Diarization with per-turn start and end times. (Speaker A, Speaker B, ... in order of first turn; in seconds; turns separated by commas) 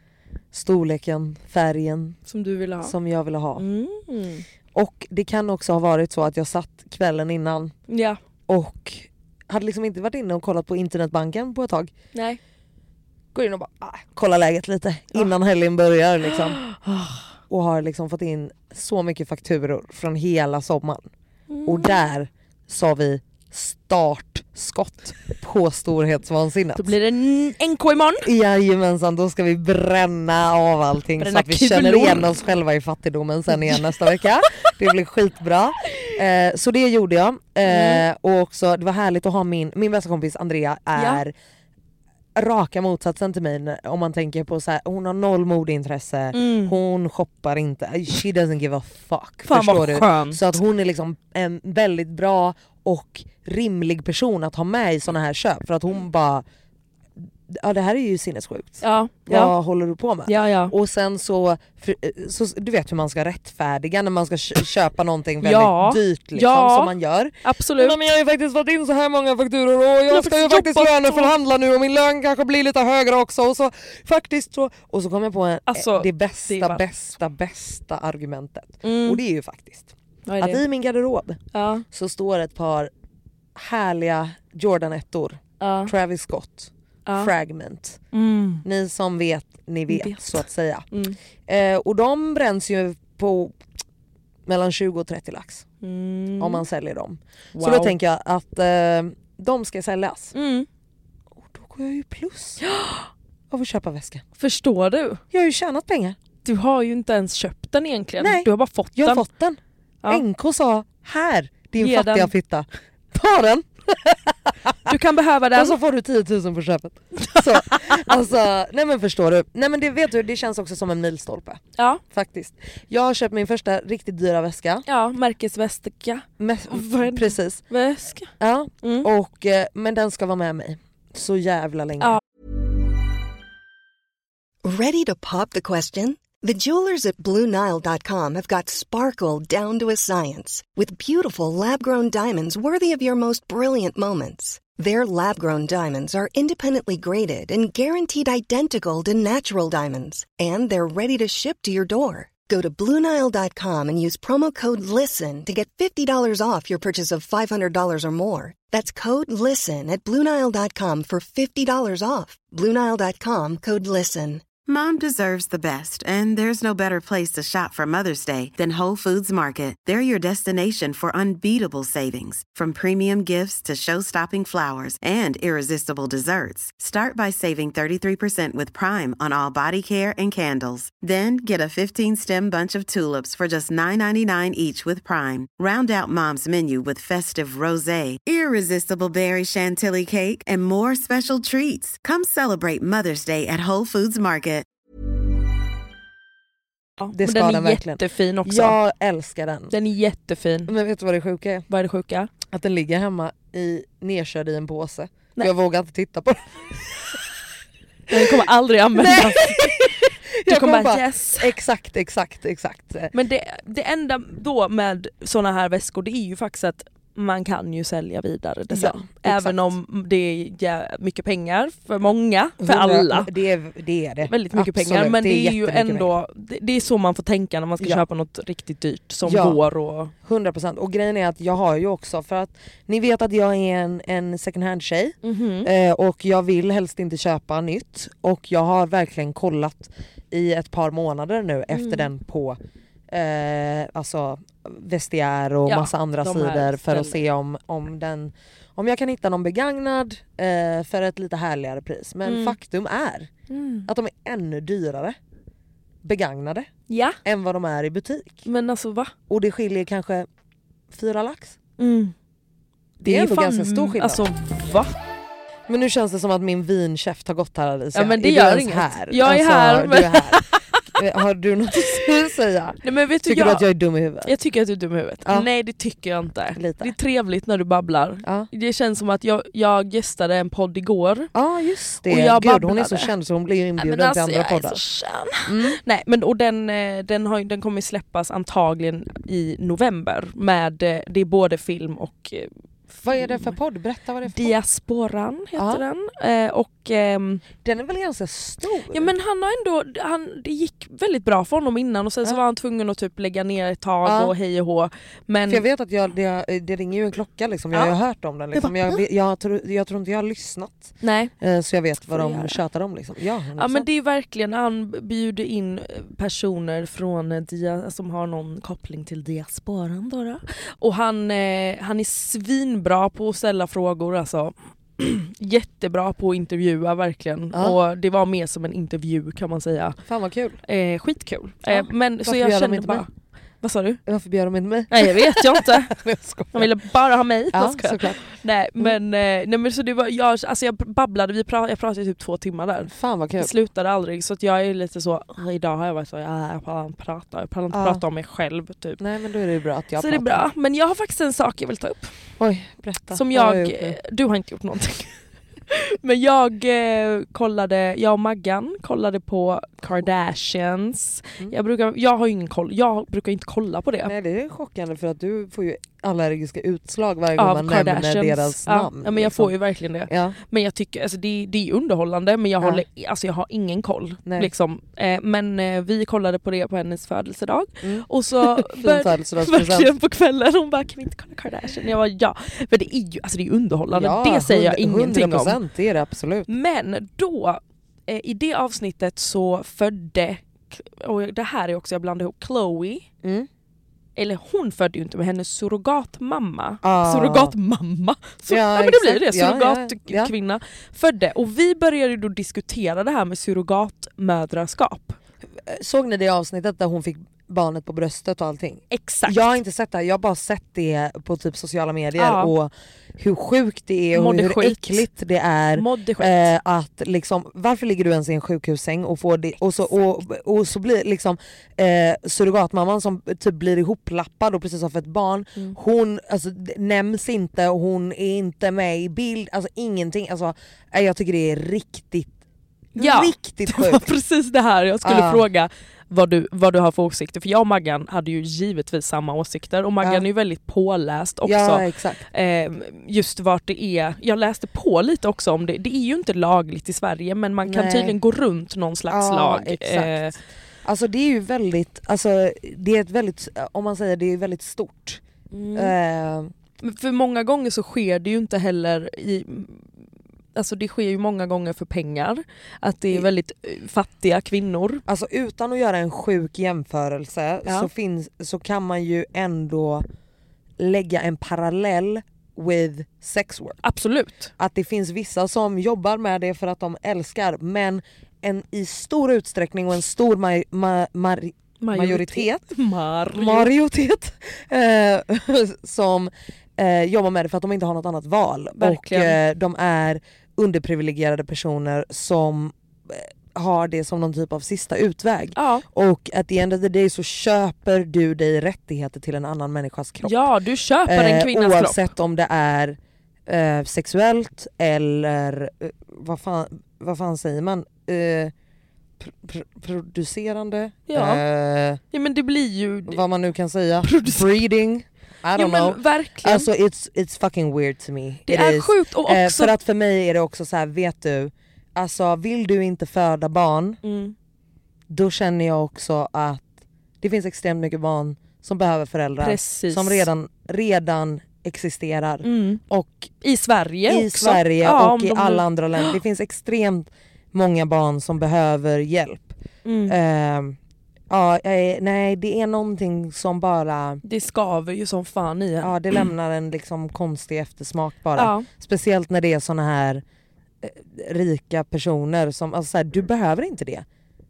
Speaker A: 0.5-2.2, Speaker B: 2.3-2.9, Speaker A: 2.8-3.6, Speaker B: 3.6-4.5, Speaker A: 4.7-7.7, Speaker B: 7.9-8.2, Speaker A: 8.5-11.9, Speaker B: 12.1-12.4, Speaker A: 13.3-16.6, Speaker B: 16.3-17.3, Speaker A: 17.5-21.1, Speaker B: 21.5-22.1, Speaker A: 21.6-26.9, Speaker B: 26.8-28.3, Speaker A: 28.2-41.3, Speaker B: 31.2-32.3, Speaker B: 37.7-38.0, Speaker B: 41.0-41.2, Speaker A: 42.4-56.5, Speaker B: 46.3-46.8, Speaker B: 49.5-50.4, Speaker A: 57.5-82.9, Speaker B: 58.8-59.5, Speaker B: 60.3-60.7, Speaker B: 65.4-68.0, Speaker B: 70.1-71.3, Speaker B: 75.7-76.8, Speaker B: 78.8-79.2, Speaker B: 80.3-80.6, Speaker B: 81.5-81.8, Speaker A: 83.5-88.0, Speaker B: 85.6-85.9, Speaker B: 87.1-87.3, Speaker B: 88.1-88.6, Speaker A: 88.6-90.9, Speaker B: 89.9-91.2, Speaker A: 91.5-93.6, Speaker A: 94.5-95.7, Speaker B: 95.8-96.6, Speaker A: 96.4-100.3, Speaker B: 97.5-98.0, Speaker B: 100.3-100.7, Speaker A: 101.4-102.6, Speaker B: 102.6-103.1, Speaker A: 103.5-104.2, Speaker B: 104.4-105.2, Speaker A: 105.3-106.2, Speaker B: 106.5-109.2, Speaker A: 108.2-114.9, Speaker B: 111.8-112.3, Speaker B: 114.9-115.8, Speaker A: 115.5-124.8, Speaker B: 117.3-118.1, Speaker B: 121.8-122.0, Speaker B: 124.9-129.1, Speaker A: 126.4-127.6, Speaker A: 128.4-132.2, Speaker C: 134.6-164.4, Speaker D: 164.7-194.7, Speaker B: 197.0-198.8, Speaker A: 197.1-199.7, Speaker B: 199.7-200.7, Speaker A: 200.7-201.7, Speaker B: 201.7-202.3, Speaker A: 202.5-207.2, Speaker B: 208.1-211.5, Speaker A: 208.9-213.1, Speaker B: 213.1-223.3, Speaker A: 218.7-219.8, Speaker A: 222.6-226.1, Speaker B: 224.3-230.1, Speaker A: 229.2-229.6, Speaker A: 230.2-242.6, Speaker B: 235.2-235.7, Speaker B: 241.7-242.1, Speaker A: 243.1-253.3, Speaker B: 245.7-247.2, Speaker B: 252.2-252.6, Speaker B: 253.5-253.9, Speaker A: 253.9-255.2, Speaker A: 256.0-256.7, Speaker B: 256.9-257.2, Speaker A: 257.2-258.4, Speaker B: 258.4-259.1, Speaker A: 259.3-260.3, Speaker A: 260.9-261.6, Speaker B: 261.8-262.1, Speaker A: 263.0-264.2, Speaker B: 263.0-264.9, Speaker A: 265.7-274.3, Speaker B: 267.9-270.9, Speaker B: 272.8-273.7, Speaker B: 274.2-281.3, Speaker A: 276.5-276.9, Speaker A: 278.2-278.5, Speaker A: 281.3-284.8, Speaker B: 282.1-283.1, Speaker B: 283.8-292.5, Speaker A: 285.5-285.8, Speaker A: 293.0-294.6, Speaker B: 293.2-293.6, Speaker B: 294.2-297.4, Speaker A: 295.6-295.8, Speaker A: 297.6-299.1, Speaker B: 298.9-305.6, Speaker A: 304.0-304.4, Speaker A: 305.5-313.9, Speaker B: 307.7-308.0, Speaker B: 308.5-309.0, Speaker B: 311.0-311.3, Speaker B: 312.1-312.6, Speaker B: 313.6-330.0, Speaker A: 327.5-327.8, Speaker A: 330.1-330.6, Speaker B: 330.7-333.1, Speaker A: 331.7-333.1, Speaker B: 333.6-334.0, Speaker A: 334.1-336.7, Speaker B: 334.9-335.9, Speaker B: 336.5-349.0, Speaker A: 337.5-338.2, Speaker A: 342.8-343.5, Speaker A: 347.7-348.0, Speaker A: 349.0-350.5, Speaker B: 350.0-352.1, Speaker A: 352.4-354.0, Speaker B: 353.1-355.2, Speaker B: 355.7-364.1, Speaker A: 364.0-369.5, Speaker B: 367.4-385.6, Speaker A: 370.1-370.4, Speaker A: 372.6-372.9, Speaker A: 377.8-379.9, Speaker A: 383.9-386.5, Speaker B: 386.5-393.1, Speaker A: 393.2-393.5, Speaker B: 394.2-405.2, Speaker A: 396.8-397.6, Speaker A: 398.5-400.3, Speaker A: 405.6-432.3, Speaker B: 408.9-409.5, Speaker B: 412.2-412.5, Speaker B: 414.1-415.1, Speaker B: 415.8-416.5, Speaker A: 433.0-434.1, Speaker B: 433.0-450.4, Speaker A: 435.0-435.4, Speaker A: 441.4-442.2, Speaker A: 447.6-448.2, Speaker A: 449.1-455.2, Speaker B: 455.5-455.9, Speaker A: 455.7-456.5, Speaker B: 456.8-459.9, Speaker B: 460.5-465.0, Speaker A: 465.1-470.1, Speaker A: 470.8-473.8, Speaker B: 473.8-474.5, Speaker A: 474.6-482.6, Speaker B: 481.8-483.7, Speaker A: 483.3-500.5, Speaker B: 488.8-489.4, Speaker B: 495.6-495.9, Speaker B: 500.2-502.1, Speaker A: 501.1-508.5, Speaker A: 509.2-512.0, Speaker B: 511.1-511.4, Speaker B: 512.1-513.2, Speaker A: 513.1-524.0, Speaker B: 514.0-514.5, Speaker B: 515.5-516.7, Speaker B: 518.5-519.7, Speaker B: 524.0-524.4, Speaker A: 525.1-533.3, Speaker B: 529.4-530.3, Speaker B: 532.4-532.8, Speaker B: 533.4-536.2, Speaker A: 534.1-539.5, Speaker B: 539.9-540.2, Speaker A: 540.1-540.8, Speaker A: 541.3-544.2, Speaker B: 544.2-546.2, Speaker A: 545.8-550.2, Speaker B: 548.4-548.7, Speaker A: 550.8-554.0